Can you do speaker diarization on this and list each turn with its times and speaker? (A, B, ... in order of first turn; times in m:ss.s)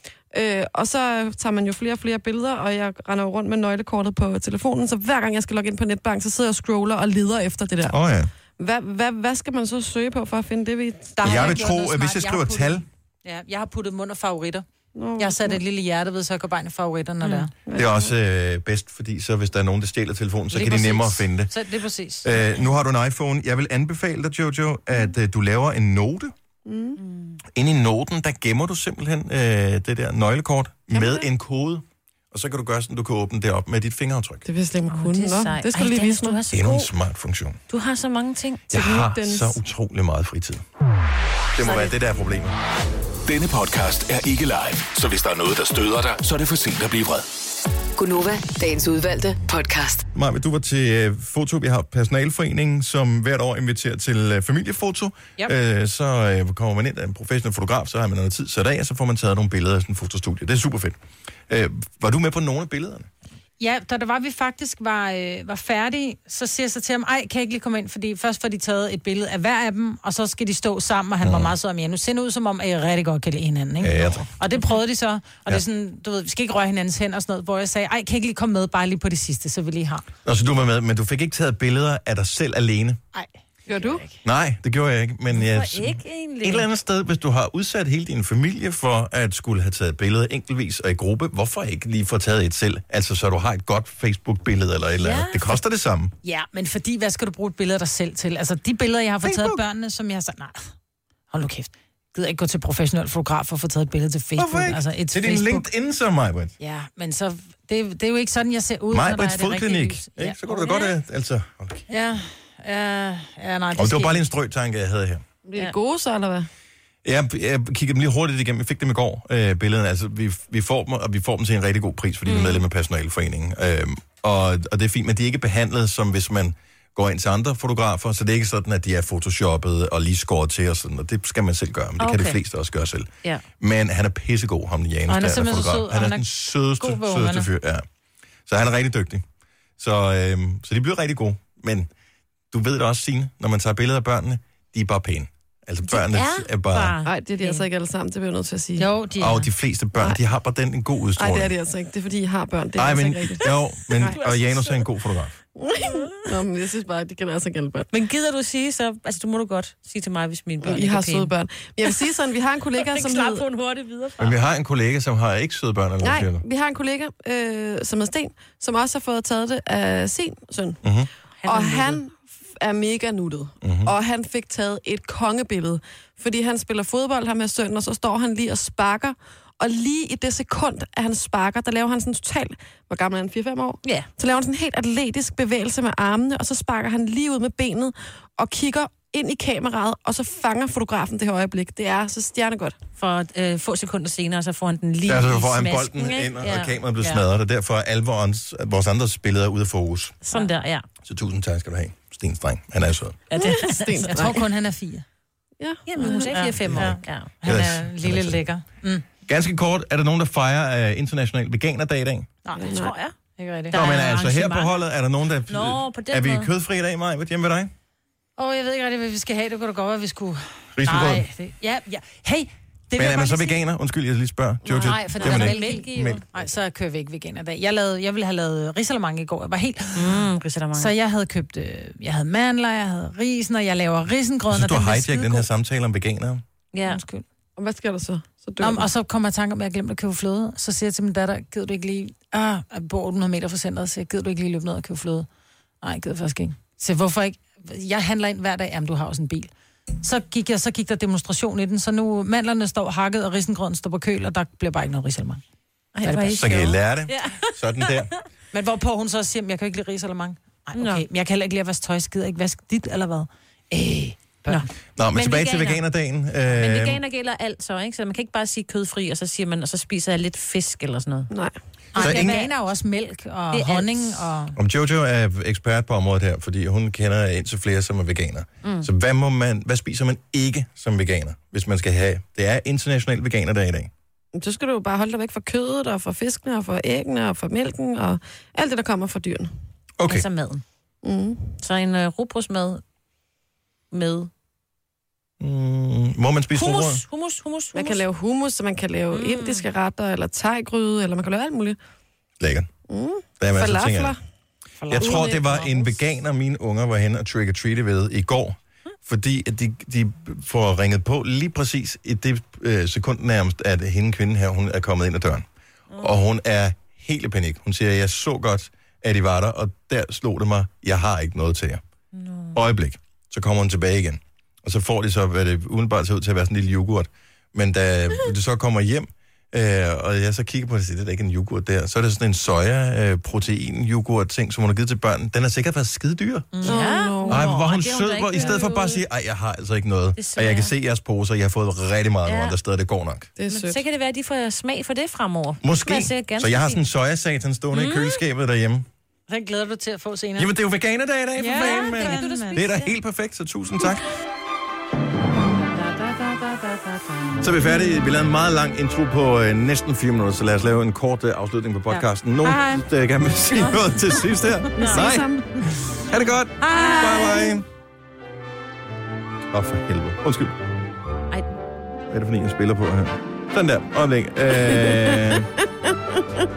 0:00.3-0:08.0 A
0:07.9-0:08.3 B
0:08.6-0:11.5 A
0:11.2-0:14.6 C
0:11.2-0:12.8 B
0:15.0-0:15.6 A
0:15.2-0:17.5 C
0:17.7-0:18.1 A
0:17.8-0:21.5 B
0:20.5-0:22.4 C
0:22.2-0:26.3 B
0:26.7-0:27.0 A
0:27.0-0:27.4 D
0:27.5-0:34.4 B
0:30.9-0:31.3 A
0:34.5-0:36.4 A
0:34.9-0:36.9 D
0:36.5-0:37.6 B
0:37.7-0:38.7 D
0:38.7-0:40.6 B
0:38.7-0:39.6 A
0:41.6-0:42.6 B
0:41.6-0:41.9 D
0:43.3-0:47.3 E
0:48.0-0:50.1 F
0:50.2-1:03.1 B
1:03.6-1:20.1 C
1:11.2-1:11.5 B
1:13.8-1:14.2 B
1:20.2-1:23.0 B
1:23.1-1:24.2 C
1:23.7-1:24.0 A
1:24.2-1:36.1 B
1:25.3-1:26.7 D
1:35.0-1:35.6 D
1:36.2-1:40.7 C
1:39.2-1:39.6 B
1:41.3-1:45.7 C
1:44.4-1:46.5 B
1:46.6-1:50.4 C
1:48.9-1:51.9 B
1:49.0-1:49.4 D
1:50.5-1:51.0 D
1:51.9-1:54.2 C
1:53.8-1:55.2 B
1:55.5-1:56.5 A
1:57.0-2:13.1 B
2:02.3-2:02.6 D
2:12.0-2:12.4 D
2:13.6-2:17.9 B
2:15.1-2:16.3 C
2:16.8-2:17.5 C
2:18.5-2:19.2 B
2:19.8-2:21.9 B
2:22.5-2:27.0 B
2:25.9-2:27.7 D
2:27.0-2:28.9 A
2:28.8-2:29.5 C
2:29.2-2:31.5 B
2:31.2-2:34.2 A
2:32.8-2:35.4 B
2:34.0-2:34.9 D
2:35.6-2:37.9 A
2:37.9-2:41.3 D
2:40.6-2:43.4 A
2:42.7-2:44.4 D
2:44.2-2:46.4 B
2:46.0-2:50.8 A
2:50.8-2:51.1 B
2:51.4-2:52.0 D
2:51.5-3:12.8 A
2:53.6-2:53.9 B
3:13.0-3:16.8 D
3:15.1-3:20.2 B
3:20.2-3:20.8 D
3:21.0-3:23.2 B
3:23.3-3:24.3 D
3:23.4-3:24.4 A
3:24.1-3:25.0 C
3:25.6-3:26.3 A
3:25.9-3:27.3 D
3:26.0-3:29.0 C
3:26.6-3:28.4 B
3:29.3-3:32.3 B
3:32.4-3:33.8 C
3:32.6-3:32.9 A
3:32.6-3:33.1 D
3:33.7-3:34.8 D
3:33.7-3:37.7 B
3:35.5-3:36.5 D
3:38.4-3:43.6 C
3:40.8-3:41.3 B
3:43.0-3:46.5 B
3:44.6-3:45.0 A
3:44.8-3:50.2 C
3:45.2-3:46.2 D
3:50.0-3:50.9 D
3:50.8-3:55.5 C
3:54.5-3:56.4 B
3:56.7-3:57.0 D
3:56.9-3:57.2 C
3:57.6-3:58.9 A
3:58.6-4:05.3 C
4:05.8-4:09.5 C
4:10.0-4:15.4 C
4:16.0-4:18.1 D
4:16.0-4:16.5 C
4:16.4-4:18.1 B
4:18.5-4:24.7 C
4:20.8-4:21.1 D
4:24.5-4:25.8 D
4:25.0-4:27.0 B
4:26.5-4:31.3 D
4:31.9-4:34.6 C
4:32.0-4:32.5 D
4:32.0-4:32.4 B
4:33.5-4:34.3 D
4:34.6-4:43.9 B
4:38.6-4:38.9 D
4:44.4-4:49.5 A
4:50.0-4:50.3 B
4:50.1-4:50.6 D
4:51.0-4:51.5 A
4:51.6-4:52.8 D
4:53.9-4:54.3 D
4:55.4-4:57.0 B
4:56.5-4:58.0 D
4:57.7-5:01.8 A
4:59.1-4:59.7 D
5:02.4-5:02.7 B
5:02.9-5:04.2 A
5:03.4-5:04.2 B
5:04.8-5:06.0 C
5:04.9-5:15.5 B
5:05.0-5:05.3 A
5:16.0-5:21.8 B
5:22.1-5:22.6 D
5:22.5-5:36.6 B
5:36.5-5:36.9 C
5:36.6-5:39.0 D
5:36.6-5:37.4 A
5:37.3-5:43.3 B
5:40.2-5:40.7 D
5:42.3-5:42.6 D
5:43.4-5:43.8 A
5:43.5-5:46.8 D
5:45.6-5:48.9 B
5:47.7-5:48.2 D
5:49.3-5:50.5 C
5:50.4-5:54.0 B
5:51.4-5:52.6 C
5:51.5-5:52.9 D
5:57.4-6:07.7 B
6:01.9-6:02.9 C
6:03.6-6:04.2 C
6:04.8-6:05.5 A
6:04.8-6:05.1 D
6:06.6-6:07.5 C
6:09.5-6:10.6 B
6:12.1-6:15.5 B
6:14.7-6:15.4 A
6:16.2-6:16.4 A